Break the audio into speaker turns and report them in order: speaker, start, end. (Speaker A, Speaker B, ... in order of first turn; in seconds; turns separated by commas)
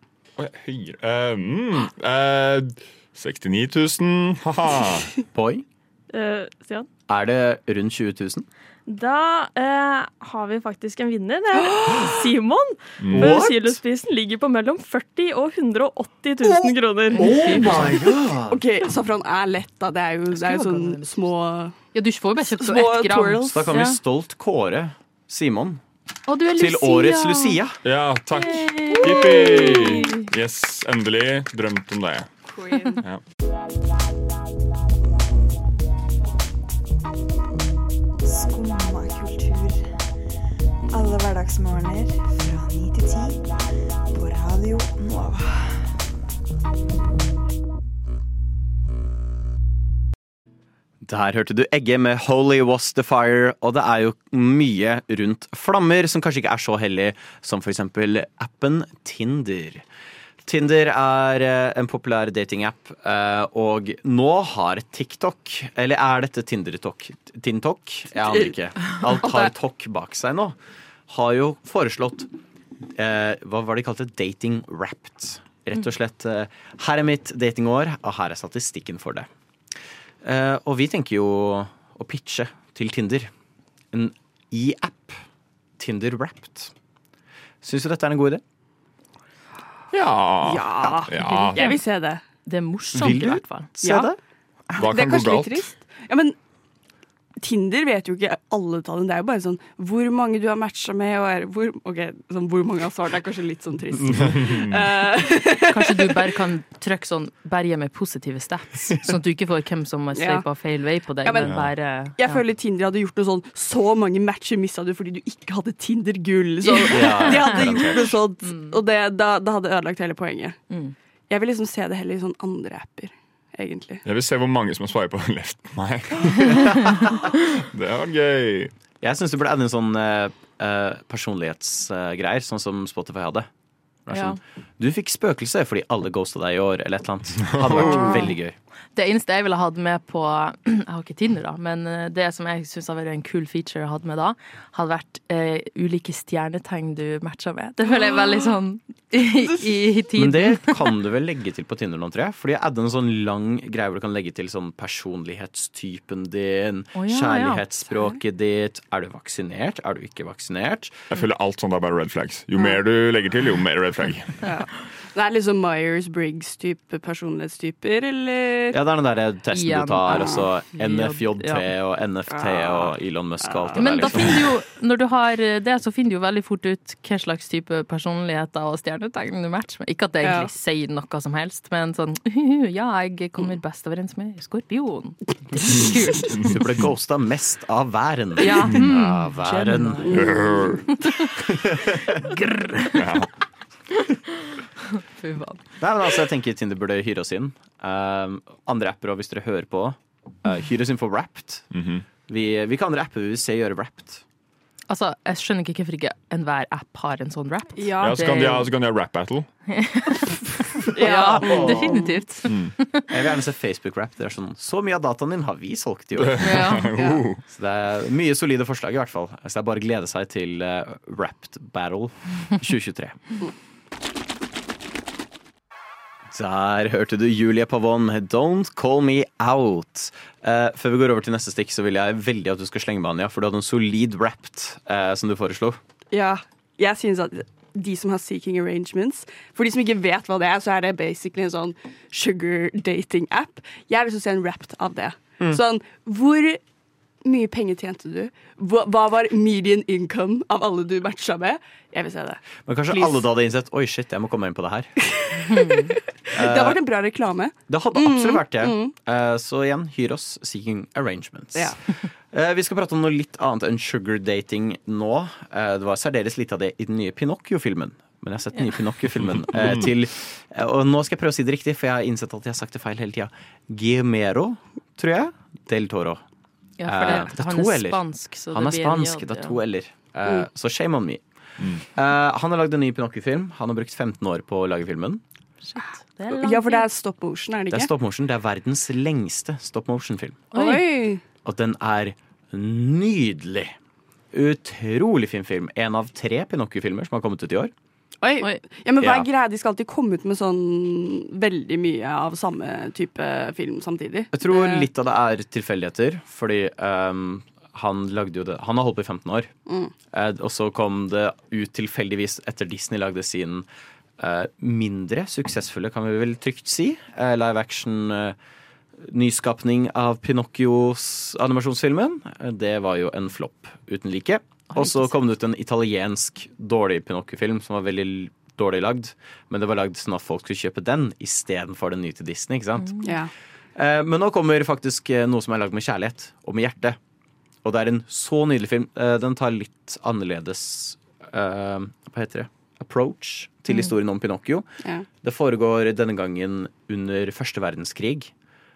Speaker A: 0.4-5.1, Speaker B: 5.3-5.6, Speaker C: 6.1-6.9, Speaker B: 7.1-8.5, Speaker C: 8.8-17.3, Speaker D: 11.6-12.2, Speaker A: 13.0-13.4, Speaker B: 13.1-13.8, Speaker E: 17.1-17.7, Speaker B: 17.1-18.6, Speaker D: 17.2-17.9, Speaker D: 18.5-21.8, Speaker E: 20.3-21.3, Speaker E: 21.9-24.0, Speaker D: 22.4-23.7, Speaker B: 23.5-25.8, Speaker E: 26.3-27.6, Speaker B: 26.5-27.8, Speaker A: 27.8-32.3, Speaker E: 28.3-30.3, Speaker D: 29.0-29.9, Speaker D: 32.5-33.0, Speaker D: 38.4-39.5, Speaker F: 38.4-39.7, Speaker D: 41.0-42.7, Speaker F: 41.0-43.3, Speaker F: 44.1-45.4, Speaker D: 44.9-45.2, Speaker B: 51.0-59.8, Speaker B: 60.4-70.6, Speaker D: 69.2-69.5, Speaker B: 71.1-72.3, Speaker B: 72.9-79.3, Speaker B: 80.2-83.3, Speaker B: 83.9-85.2, Speaker B: 85.8-86.7, Speaker B: 87.6-88.4, Speaker A: 89.9-91.7, Speaker D: 90.4-92.2, Speaker E: 91.2-91.8, Speaker E: 92.5-93.8, Speaker B: 92.9-94.2, Speaker D: 93.8-94.1, Speaker A: 94.7-95.6, Speaker D: 94.8-96.3, Speaker D: 97.4-106.2, Speaker A: 104.2-104.8, Speaker E: 105.6-112.4, Speaker D: 110.1-110.5, Speaker D: 111.2-120.6, Speaker A: 111.4-111.7, Speaker E: 116.6-117.8, Speaker B: 116.9-118.2, Speaker E: 118.4-118.8, Speaker D: 121.3-124.0, Speaker A: 124.0-128.7, Speaker B: 129.0-133.5, Speaker B: 134.1-138.6, Speaker E: 134.1-134.4, Speaker A: 137.4-138.2, Speaker E: 138.9-150.8, Speaker B: 150.2-161.0, Speaker E: 156.9-157.7, Speaker A: 161.1-164.4, Speaker D: 164.4-168.8, Speaker B: 168.7-174.4, Speaker E: 169.5-171.7, Speaker D: 172.3-174.2, Speaker E: 173.8-186.5, Speaker D: 180.2-180.5, Speaker B: 186.4-190.4, Speaker E: 188.4-190.4, Speaker D: 190.1-190.8, Speaker A: 190.1-190.8, Speaker B: 191.4-192.1, Speaker E: 192.2-193.0, Speaker A: 192.8-193.3, Speaker E: 194.9-195.6, Speaker B: 195.8-201.7, Speaker A: 201.7-202.0, Speaker B: 202.2-204.2, Speaker E: 204.9-208.7, Speaker D: 207.8-208.4, Speaker A: 208.0-209.5, Speaker E: 209.7-213.1, Speaker D: 210.9-212.2, Speaker B: 211.2-212.0, Speaker A: 212.4-212.7, Speaker B: 213.1-216.6, Speaker A: 216.2-217.4, Speaker E: 216.4-216.9, Speaker D: 216.9-217.2, Speaker B: 217.5-223.2, Speaker B: 226.3-235.8, Speaker D: 236.1-246.6, Speaker D: 247.2-253.2, Speaker B: 252.7-254.9, Speaker D: 255.2-258.9, Speaker E: 255.5-255.9, Speaker B: 256.3-256.8, Speaker B: 257.7-261.8, Speaker B: 262.3-276.2, Speaker A: 269.5-269.9, Speaker E: 276.8-279.6, Speaker B: 276.9-281.2, Speaker B: 281.9-285.2, Speaker E: 285.6-286.9, Speaker D: 286.3-287.9, Speaker B: 287.7-290.5, Speaker E: 290.5-290.9, Speaker D: 290.5-291.2, Speaker B: 291.4-293.7, Speaker B: 294.3-297.7, Speaker D: 298.2-304.9, Speaker B: 299.0-299.3, Speaker B: 304.3-309.5, Speaker D: 309.7-309.9, Speaker B: 310.1-313.6, Speaker B: 314.2-318.4, Speaker B: 319.0-333.1, Speaker E: 324.7-325.1, Speaker D: 333.0-333.3, Speaker B: 333.7-337.0, Speaker B: 337.6-344.7, Speaker B: 345.2-348.3